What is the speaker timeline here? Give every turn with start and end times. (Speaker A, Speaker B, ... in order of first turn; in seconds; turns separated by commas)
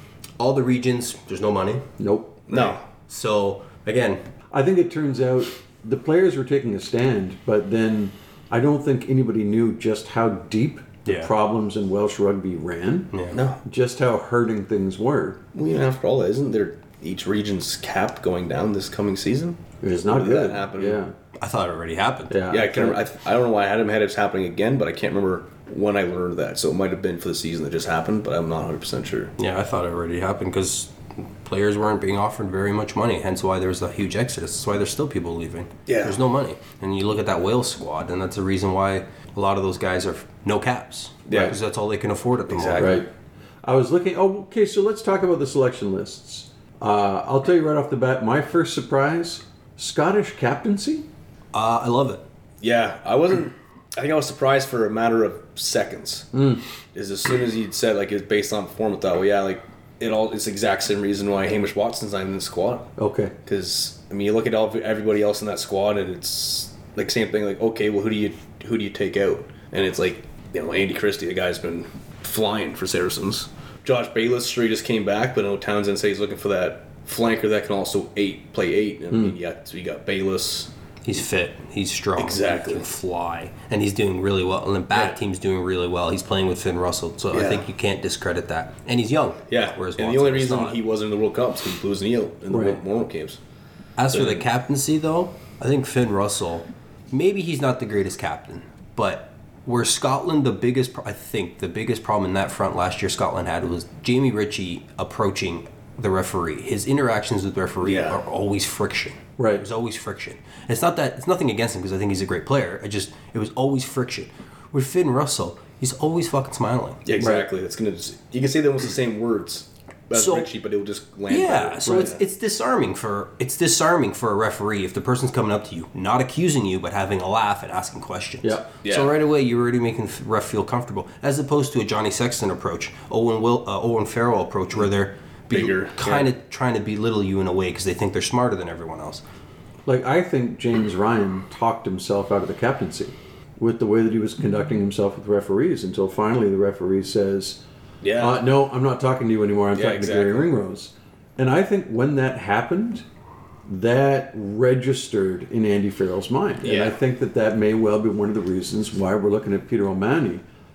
Speaker A: 0.4-1.9, Speaker B: 2.0-2.7, Speaker C: 2.5-2.8, Speaker A: 2.5-4.2, Speaker B: 4.5-15.4, Speaker A: 11.1-11.3, Speaker A: 13.1-13.4, Speaker C: 13.3-13.6, Speaker C: 15.5-21.0, Speaker B: 19.8-21.1, Speaker A: 21.4-22.4, Speaker B: 22.3-23.0, Speaker C: 22.5-29.3, Speaker A: 29.4-43.0, Speaker C: 35.9-36.2, Speaker C: 41.3-41.5, Speaker C: 42.5-43.0, Speaker B: 42.8-43.1, Speaker B: 43.6-51.1, Speaker A: 51.5-52.2, Speaker C: 52.6-56.3, Speaker B: 56.3-56.6, Speaker C: 56.9-62.9, Speaker B: 63.0-63.3, Speaker C: 63.5-80.7, Speaker A: 81.0-90.8, Speaker C: 82.2-82.9, Speaker C: 87.3-87.7, Speaker C: 89.5-93.4, Speaker B: 92.5-92.8, Speaker A: 94.0-117.0, Speaker C: 94.1-94.4, Speaker C: 107.8-108.2, Speaker B: 109.4-109.7, Speaker C: 117.0-122.2, Speaker B: 117.2-117.5, Speaker A: 120.1-120.5, Speaker A: 121.3-139.2, Speaker B: 121.8-122.2, Speaker C: 128.8-129.1, Speaker C: 135.5-136.3, Speaker B: 139.9-147.6, Speaker C: 148.0-148.4, Speaker B: 148.2-153.0, Speaker C: 149.7-150.5, Speaker B: 153.7-160.4, Speaker C: 156.6-157.0